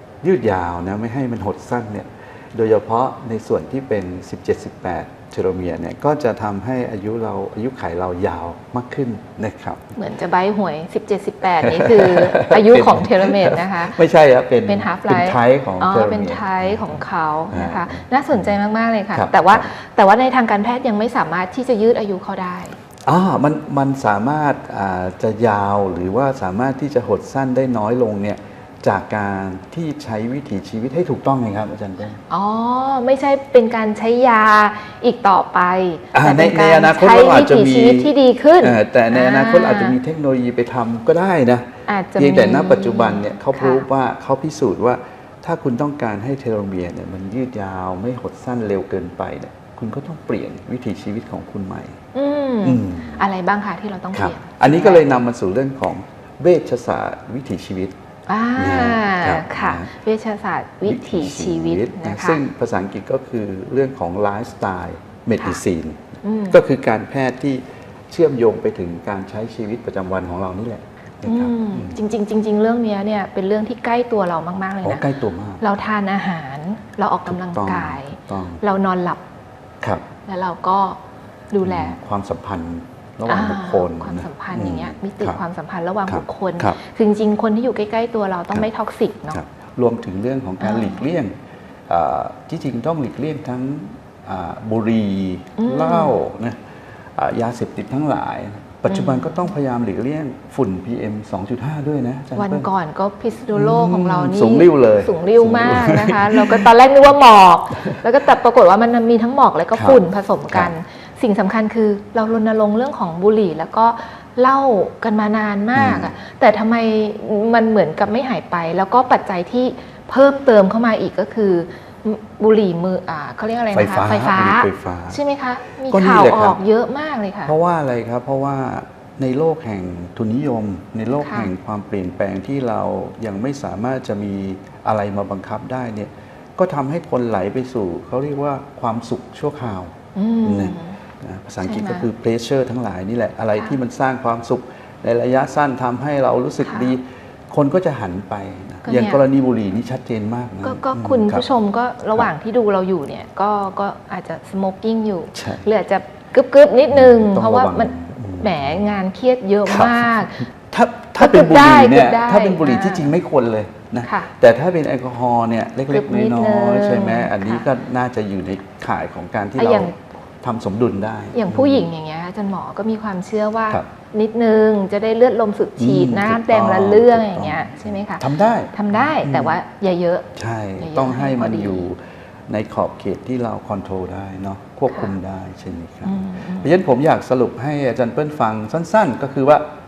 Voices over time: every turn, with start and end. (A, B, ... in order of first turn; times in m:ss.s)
0:00.2-0:09.9 A
0:10.0-0:14.0 B
0:11.6-0:18.5 A
0:14.6-0:22.8 B
0:19.1-0:19.7 A
0:23.0-0:32.2 A
0:32.3-0:40.0 B
0:36.1-0:52.0 A
0:41.9-0:43.8 B
0:52.1-0:55.2 B
0:52.6-0:53.2 A
0:54.1-0:57.9 A
0:58.3-1:02.4 B
0:58.6-0:59.9 A
1:00.8-1:12.0 A
1:06.2-1:06.6 B
1:11.2-1:15.0 B
1:14.8-1:15.6 A
1:15.6-1:19.2 B
1:17.3-1:18.6 A
1:20.2-1:21.0 B
1:21.5-1:22.0 B
1:21.6-1:25.4 A
1:23.2-1:29.4 B
1:26.1-1:26.8 A
1:29.3-1:31.3 A
1:30.6-1:31.0 B
1:31.9-1:36.6 A
1:35.6-1:36.2 B
1:37.2-1:42.7 A
1:38.9-1:39.4 B
1:42.3-2:07.5 B
1:43.5-1:46.7 A
1:49.7-1:50.7 A
1:55.7-1:56.1 A
2:03.7-2:05.2 A
2:05.9-2:06.6 A
2:07.4-2:31.4 A
2:11.2-2:11.5 B
2:20.1-2:21.0 B
2:21.6-2:22.1 B
2:26.6-2:26.9 B
2:28.8-2:29.2 B
2:30.6-2:40.5 B
2:35.3-2:35.6 A
2:36.9-2:38.9 A
2:39.7-2:49.9 A
2:41.2-2:43.1 B
2:44.0-2:44.3 B
2:45.9-2:47.6 B
2:49.6-2:49.9 B
2:50.4-2:51.9 A
2:51.3-3:00.3 B
2:55.8-2:59.6 A
3:00.4-3:09.6 A
3:00.8-3:01.9 B
3:06.0-3:06.7 B